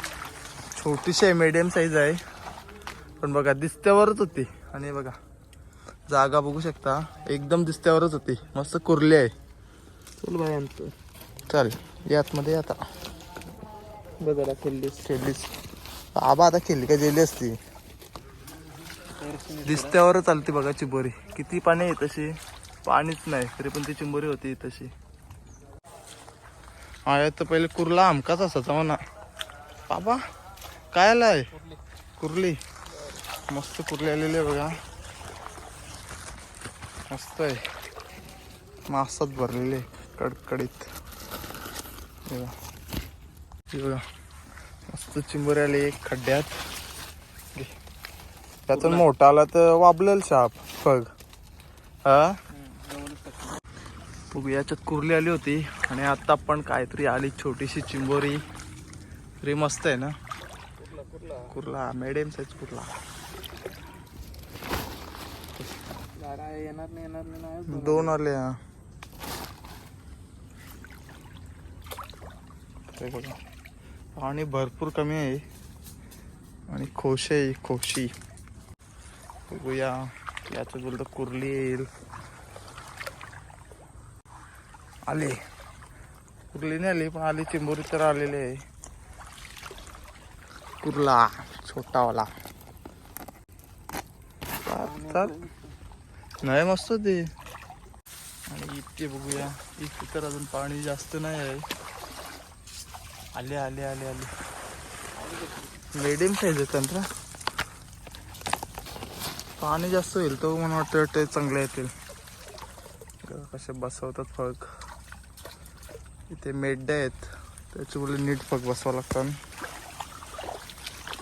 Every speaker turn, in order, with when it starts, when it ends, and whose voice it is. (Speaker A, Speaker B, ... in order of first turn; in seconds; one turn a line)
Speaker A: 0.8-2.2
Speaker A: 3.2-5.2
Speaker A: 6.1-9.3
Speaker B: 10.2-10.9
Speaker A: 11.5-12.8
Speaker B: 14.2-15.0
Speaker A: 15.0-15.5
Speaker A: 16.1-17.6
Speaker B: 19.2-20.0
Speaker A: 19.6-22.3
Speaker A: 22.8-24.9
Speaker A: 27.1-29.0
Speaker A: 29.9-30.2
Speaker A: 30.9-31.5
Speaker B: 31.5-31.8
Speaker A: 32.2-32.6
Speaker B: 32.9-33.2
Speaker A: 33.5-34.7
Speaker A: 37.1-37.6
Speaker A: 38.9-40.9
Speaker A: 42.3-42.5
Speaker A: 43.7-44.0
Speaker A: 44.9-46.5
Speaker A: 48.7-51.1
Speaker B: 48.7-49.0
Speaker A: 52.1-52.3
Speaker B: 52.5-53.6
Speaker A: 54.3-58.4
Speaker A: 59.4-60.1
Speaker B: 60.8-61.5
Speaker A: 61.5-62.9
Speaker B: 66.2-68.2
Speaker A: 67.7-68.5
Speaker A: 72.9-73.3
Speaker A: 74.2-75.4
Speaker A: 76.7-78.1
Speaker A: 79.5-80.0
Speaker A: 80.5-81.9
Speaker A: 85.1-85.4
Speaker A: 86.5-88.5
Speaker A: 90.8-92.3
Speaker A: 94.7-95.3
Speaker B: 94.8-95.7
Speaker A: 96.4-97.2
Speaker A: 98.5-101.6
Speaker A: 103.3-104.3
Speaker B: 105.2-105.7
Speaker A: 105.9-107.0
Speaker A: 109.6-111.9
Speaker A: 113.2-114.6
Speaker A: 116.3-119.3